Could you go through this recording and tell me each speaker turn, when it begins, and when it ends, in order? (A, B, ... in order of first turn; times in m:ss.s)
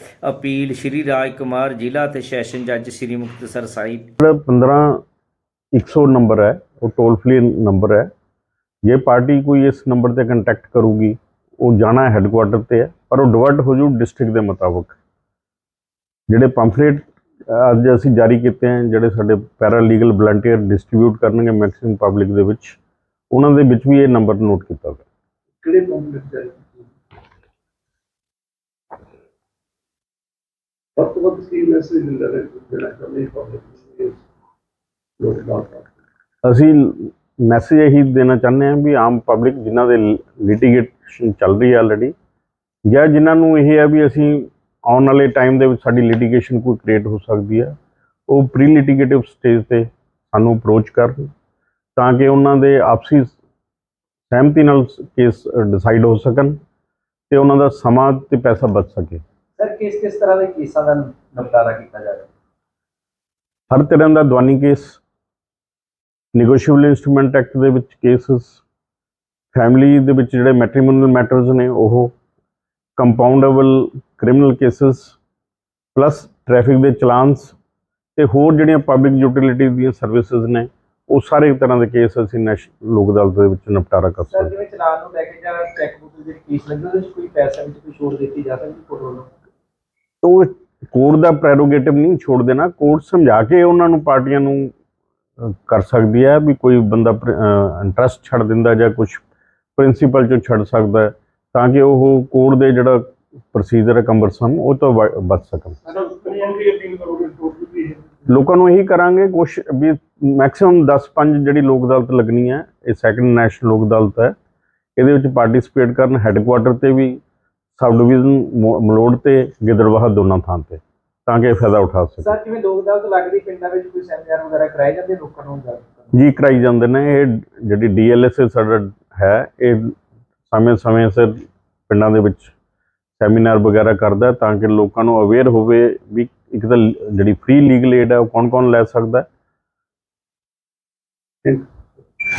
0:00.2-0:04.1 A
0:04.2-0:05.0 B
0:05.7-0:08.1 B
0:08.8-0:15.0 B
0:16.3-0:22.8 B
0:23.3-0:25.0 B
0:25.6-0:26.9 C
0:31.0-0:34.2 C
0:35.2-0:36.0 C
0:36.4-0:42.1 B
0:42.8-0:47.8 B
0:48.3-0:51.3 B
0:52.0-0:53.4 B
0:54.3-0:56.6 B
0:57.3-0:59.2 B
0:59.6-1:02.3 D
1:03.7-1:05.0 B
1:06.3-1:08.6 B
1:09.5-1:12.1 B
1:13.0-1:15.2 B
1:15.9-1:17.5 B
1:18.2-1:24.5 B
1:24.3-1:29.3 D
1:30.2-1:34.7 B
1:35.4-1:39.2 B
1:39.8-1:45.8 B
1:45.9-1:48.0 C
1:48.3-1:54.3 B
1:55.0-1:57.2 B
1:57.8-2:02.3 B
2:02.2-2:06.1 D
2:06.1-2:09.9 B
2:10.5-2:11.4 B
2:11.9-2:12.5 B
2:13.2-2:19.2 B